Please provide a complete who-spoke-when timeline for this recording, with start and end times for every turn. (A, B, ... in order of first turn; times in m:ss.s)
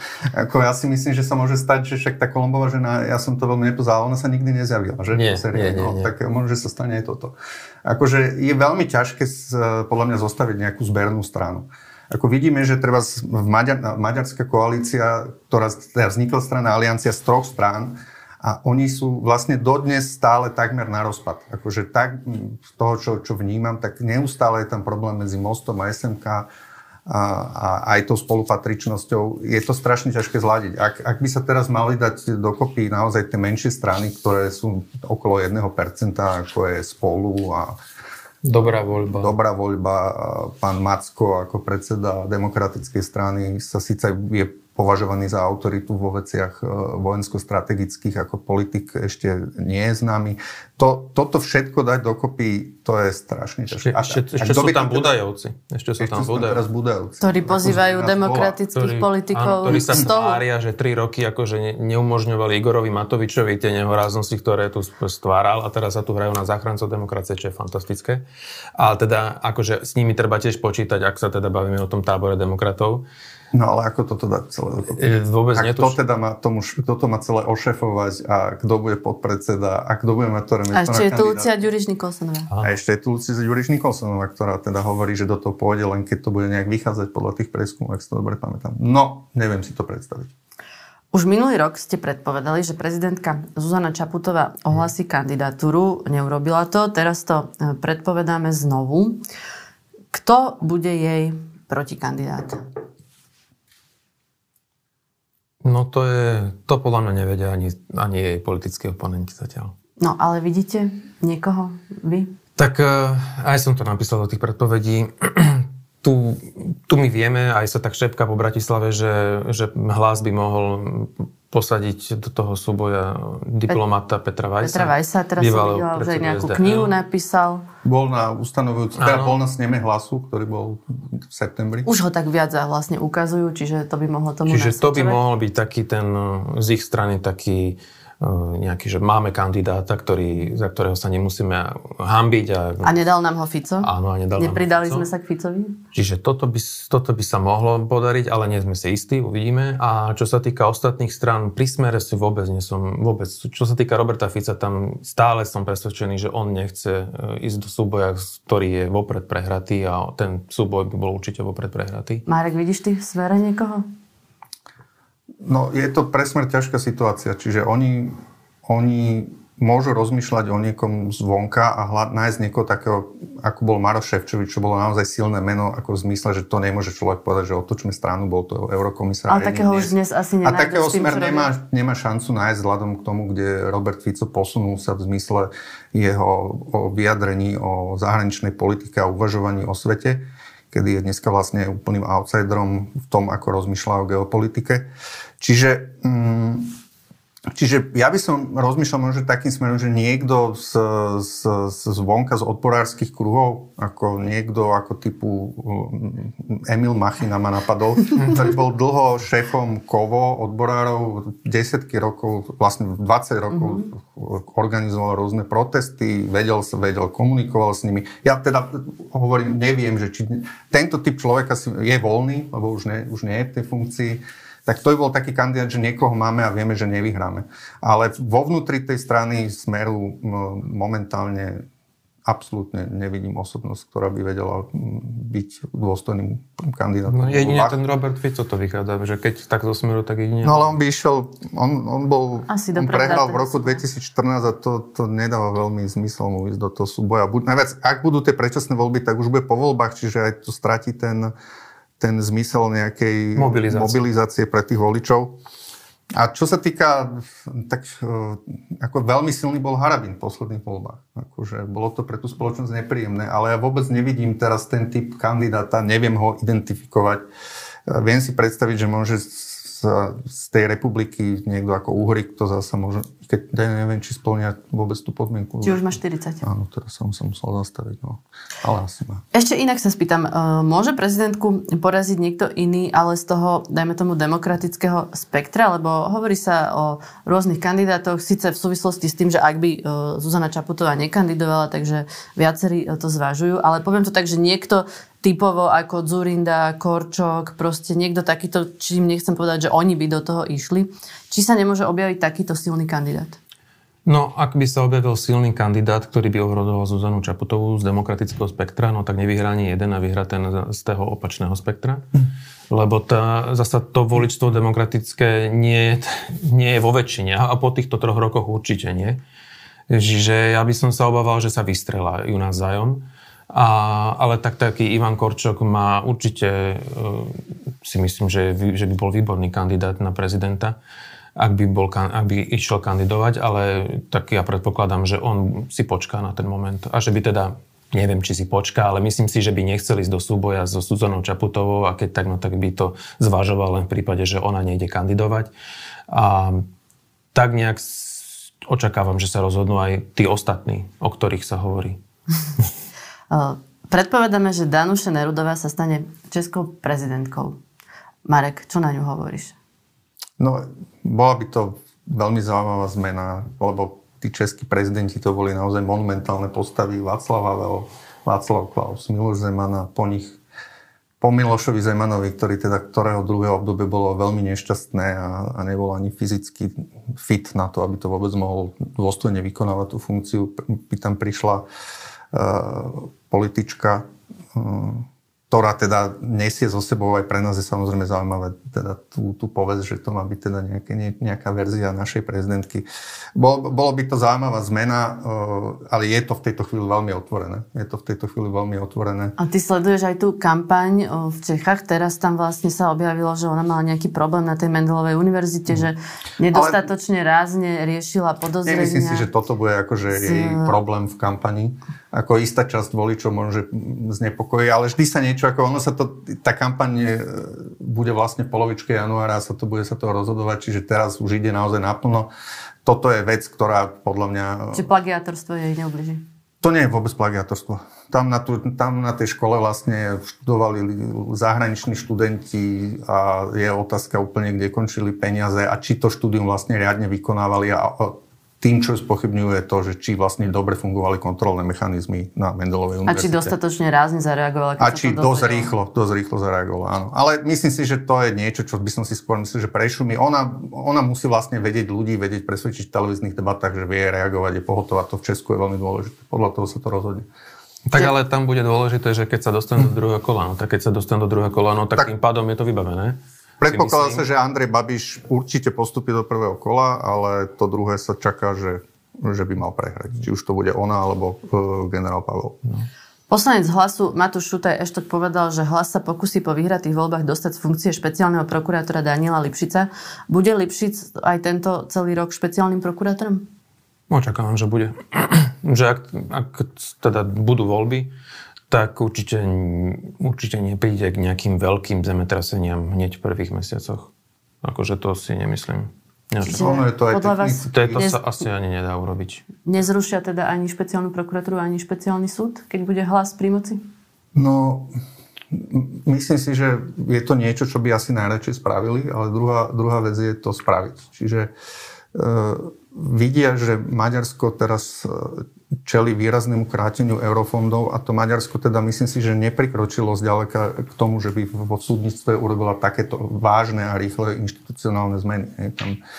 0:00.3-0:26.5 A
0:05.1-0:06.1 B
0:27.0-0:37.8 A
0:38.4-0:39.3 B
0:39.1-0:55.2 A
0:53.8-0:56.6 B
0:56.0-0:58.6 A
0:57.2-1:00.4 C
0:58.7-1:08.2 B
1:08.8-1:13.0 B
1:13.5-1:15.0 A
1:14.9-1:16.0 B
1:15.5-1:21.5 A
1:20.7-1:22.5 C
1:22.6-1:30.3 A
1:31.1-1:39.2 C
1:40.1-1:42.6 C
1:45.6-1:49.7 B
1:50.0-1:52.3 C
1:52.6-2:06.9 B
2:04.6-2:07.6 C
2:07.8-2:11.9 A
2:09.0-2:09.4 B
2:11.8-2:15.2 C
2:14.5-2:23.0 B
2:22.8-2:25.8 C
2:23.8-2:25.0 B
2:25.9-2:42.2 B
2:42.2-2:43.8 C
2:45.4-2:59.9 A
2:59.3-3:01.5 C
3:00.4-3:16.8 A
3:17.5-3:51.6 A
3:52.2-3:57.8 A
3:57.1-4:00.8 B
4:00.4-4:11.3 A
4:02.5-4:03.8 C
4:12.0-4:15.4 A
4:13.4-4:14.0 B
4:16.1-4:27.2 A
4:27.9-4:39.2 A
4:35.6-4:36.4 C
4:39.3-5:03.4 C
5:04.0-5:12.1 B
5:12.7-5:19.2 B
5:19.9-5:30.8 B
5:31.4-5:45.5 B
5:46.1-5:46.7 B
5:47.3-5:52.0 B
5:53.3-5:57.6 C
5:58.2-5:59.6 C
6:00.4-6:10.4 A
6:11.2-6:21.6 A
6:22.3-6:39.3 A
6:39.4-6:49.3 C
6:46.5-6:46.8 A
6:48.6-7:02.3 A
6:50.1-6:50.8 C
7:02.8-7:04.9 A
7:04.7-7:06.2 C
7:06.6-7:23.5 A
7:23.0-7:25.7 C
7:24.8-7:37.3 A
7:37.9-7:44.2 B
7:43.6-7:52.8 A
7:53.3-8:03.5 C
8:04.1-8:08.1 B
8:08.7-8:14.1 B
8:14.6-8:16.7 B
8:16.4-8:18.2 C
8:16.5-8:18.1 A
8:17.7-8:19.4 B
8:19.6-8:23.8 C
8:24.3-8:24.9 A
8:25.5-8:31.5 A
8:32.1-8:46.0 A